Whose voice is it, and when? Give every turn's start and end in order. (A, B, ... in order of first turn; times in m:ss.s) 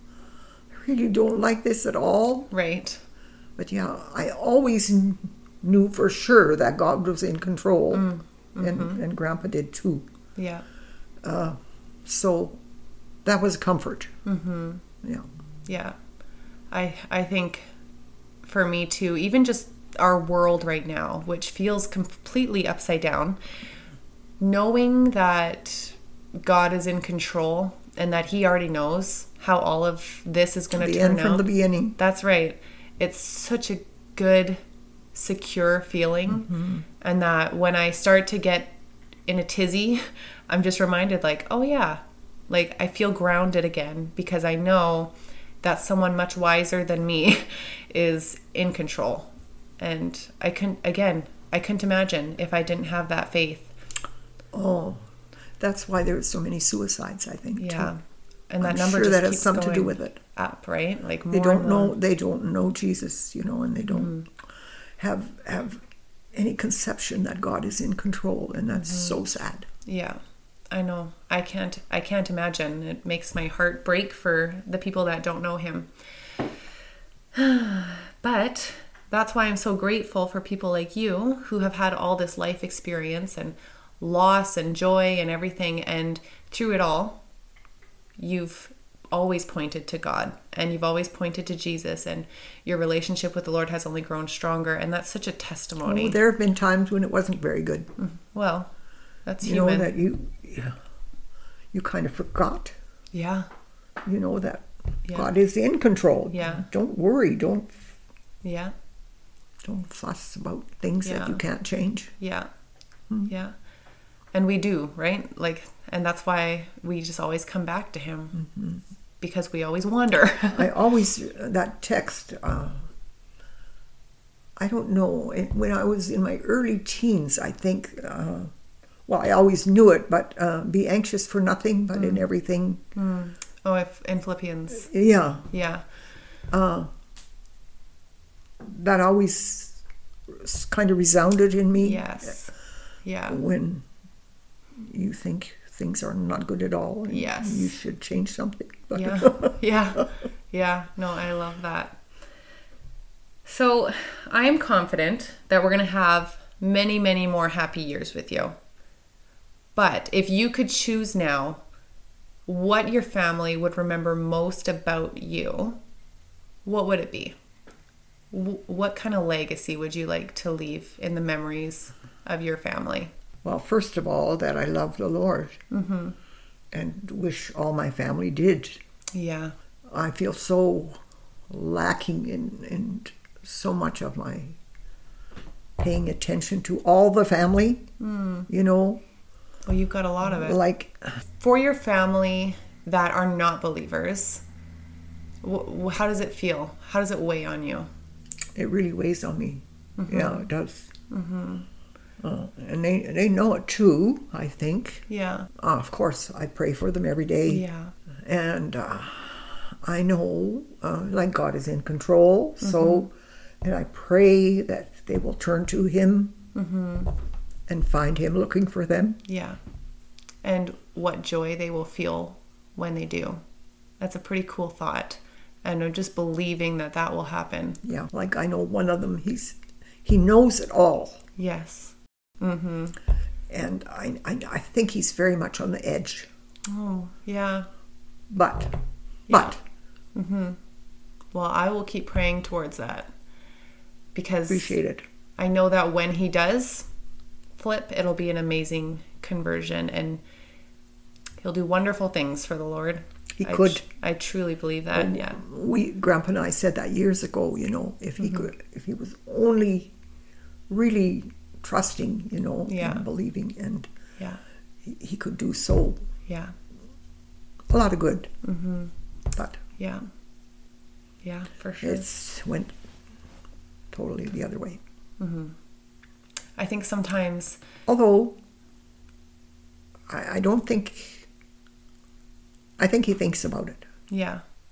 0:00.7-0:02.5 A
0:02.5-0:03.0 B
0:03.6-0:10.0 A
0:07.9-0:09.0 B
0:10.4-0:10.6 B
0:11.2-0:12.6 A
0:13.2-0:14.1 A
0:14.2-0:14.8 B
0:15.7-0:15.9 B
0:16.7-0:17.7 B
0:18.4-0:23.4 B
0:24.4-0:31.4 B
0:30.8-0:32.0 A
0:32.0-0:34.6 B
0:35.1-0:38.7 B
0:36.3-0:36.8 A
0:39.3-0:53.7 B
0:54.5-0:55.0 A
0:55.6-0:57.9 A
0:57.6-1:01.9 B
0:58.6-1:00.2 A
1:01.3-1:04.2 A
1:03.9-1:04.2 B
1:05.0-1:05.8 A
1:06.3-1:09.7 A
1:08.7-1:09.2 B
1:09.8-1:10.2 B
1:10.7-1:15.9 B
1:17.3-1:27.2 B
1:28.2-1:36.2 B
1:35.8-1:37.9 A
1:38.0-1:38.7 B
1:39.2-1:39.9 B
1:39.4-1:40.8 A
1:41.7-1:42.7 A
1:43.1-1:43.5 B
1:44.0-1:47.8 A
1:46.3-1:46.6 B
1:48.4-1:48.7 B
1:49.6-1:52.1 A
1:51.0-1:51.4 B
1:52.2-1:52.5 B
1:53.3-1:53.5 B
1:54.3-1:58.4 B
1:58.4-1:58.8 A
1:59.2-2:00.7 B
2:00.5-2:02.8 A
2:04.6-2:08.5 A
2:09.1-2:12.8 A
2:12.0-2:12.2 B
2:12.9-2:14.9 B
2:14.8-2:15.4 A
2:15.5-2:15.8 B
2:16.5-2:16.9 A
2:18.6-2:19.8 A
2:20.3-2:22.2 A
2:21.8-2:22.5 B
2:23.0-2:23.4 B
2:23.3-2:23.8 A
2:24.8-2:29.6 A
2:27.1-2:27.7 B
2:28.9-2:32.0 B
2:33.4-2:38.5 B
2:39.7-2:41.6 B
2:42.5-2:45.8 B
2:46.6-2:47.3 B
2:48.3-2:53.1 B
2:53.4-2:55.6 A
2:55.7-2:56.2 B
2:56.7-2:58.8 A
2:59.1-2:59.5 B
2:59.9-3:01.0 A
3:01.5-3:04.6 A
3:05.8-3:07.8 A
3:08.0-3:08.5 B
3:08.5-3:09.0 A
3:09.6-3:10.6 B
3:10.2-3:11.0 A
3:11.4-3:14.4 B
3:15.4-3:17.9 B
3:18.6-3:20.9 A
3:20.0-3:20.4 B
3:21.1-3:21.6 B
3:22.2-3:27.6 A
3:25.1-3:25.5 B
3:27.5-3:27.9 B
3:28.2-3:36.4 A
3:32.6-3:33.0 B
3:36.5-3:37.1 B
3:37.7-3:39.2 A
3:39.3-3:39.6 B
3:40.4-3:43.4 B
3:44.0-3:47.8 B
3:47.8-3:51.2 A
3:51.4-3:53.0 B
3:53.5-3:56.3 A
3:56.6-3:57.7 B
3:58.3-3:58.7 A
3:59.3-3:59.6 A
3:59.3-3:59.6 B
4:00.1-4:00.6 B
4:01.3-4:03.1 B
4:04.1-4:04.8 B
4:04.5-4:05.0 A
4:05.4-4:06.8 B
4:07.6-4:10.2 B
4:11.4-4:15.4 B
4:13.4-4:13.8 A
4:14.9-4:19.9 A
4:20.7-4:23.9 A
4:22.7-4:23.0 B
4:24.8-4:26.0 A
4:26.3-4:26.5 B
4:27.7-4:28.3 A
4:28.4-4:28.9 B
4:29.3-4:29.6 A
4:29.8-4:30.0 B
4:31.2-4:32.1 B
4:31.8-4:32.7 A
4:33.9-4:34.8 A
4:35.2-4:35.5 B
4:36.6-4:37.6 B
4:37.9-4:38.4 A
4:40.1-4:41.3 A
4:42.8-4:43.8 A
4:44.1-4:44.4 B